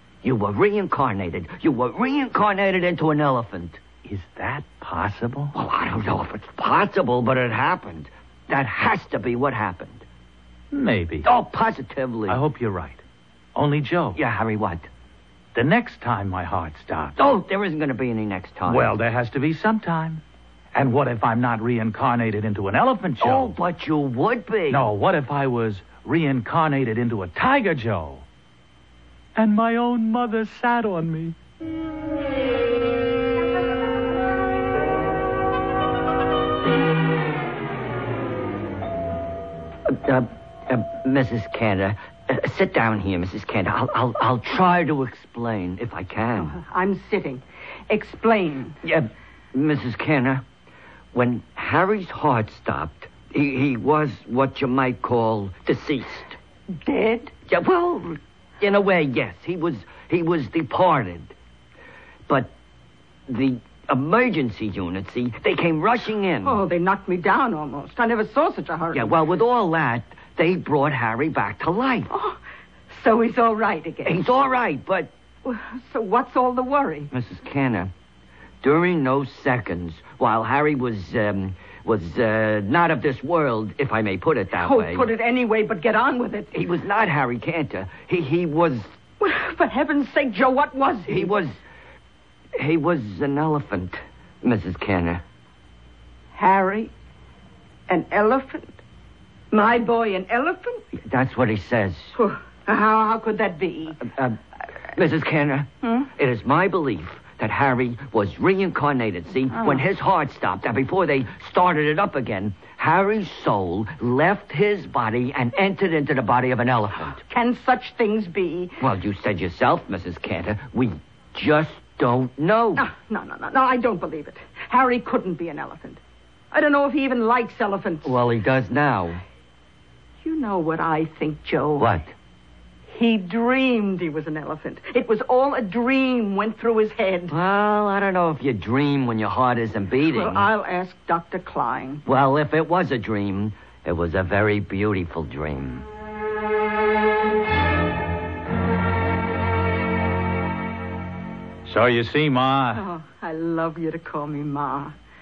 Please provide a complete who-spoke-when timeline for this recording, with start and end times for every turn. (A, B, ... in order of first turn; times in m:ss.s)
0:00.2-0:03.8 A
0:04.0-0:05.6 B
0:05.5-0:10.0 A
0:10.7-0:11.3 B
0:11.2-0:12.4 A
0:12.3-0:13.0 B
0:13.6-0:14.2 B
0:14.2-0:14.9 A
0:15.5-0:17.3 B
0:17.2-0:18.9 A
0:18.7-0:20.2 B
0:20.7-0:23.5 B
0:23.2-0:24.9 A
0:24.7-0:28.2 B
0:29.4-0:31.4 B
0:39.9-0:46.6 A
0:46.4-0:48.8 C
0:48.8-0:50.4 A
0:51.1-0:56.4 A
0:56.8-0:57.3 C
0:57.5-1:01.3 A
1:02.3-1:02.5 A
1:03.3-1:06.6 A
1:06.4-1:09.2 C
1:08.9-1:12.1 A
1:12.1-1:12.4 C
1:12.9-1:14.2 C
1:14.0-1:15.1 A
1:15.4-1:17.1 C
1:17.1-1:17.9 A
1:18.6-1:25.1 A
1:24.5-1:26.6 C
1:26.5-1:28.9 A
1:29.2-1:31.4 C
1:31.1-1:31.6 A
1:32.6-1:35.2 A
1:36.4-1:36.9 C
1:37.9-1:38.8 C
1:39.5-1:40.8 C
1:41.0-1:42.2 A
1:42.2-1:44.1 C
1:44.0-1:44.4 A
1:44.9-1:57.2 A
1:45.8-1:46.1 C
1:49.5-1:49.8 C
1:57.3-1:58.8 C
1:58.8-2:02.8 A
2:02.8-2:06.0 C
2:06.5-2:08.2 C
2:08.0-2:09.2 A
2:10.2-2:12.0 C
2:11.8-2:12.1 A
2:12.9-2:17.4 C
2:17.3-2:20.5 A
2:20.0-2:22.0 C
2:22.1-2:25.9 A
2:31.6-2:32.8 B
2:32.7-2:34.9 C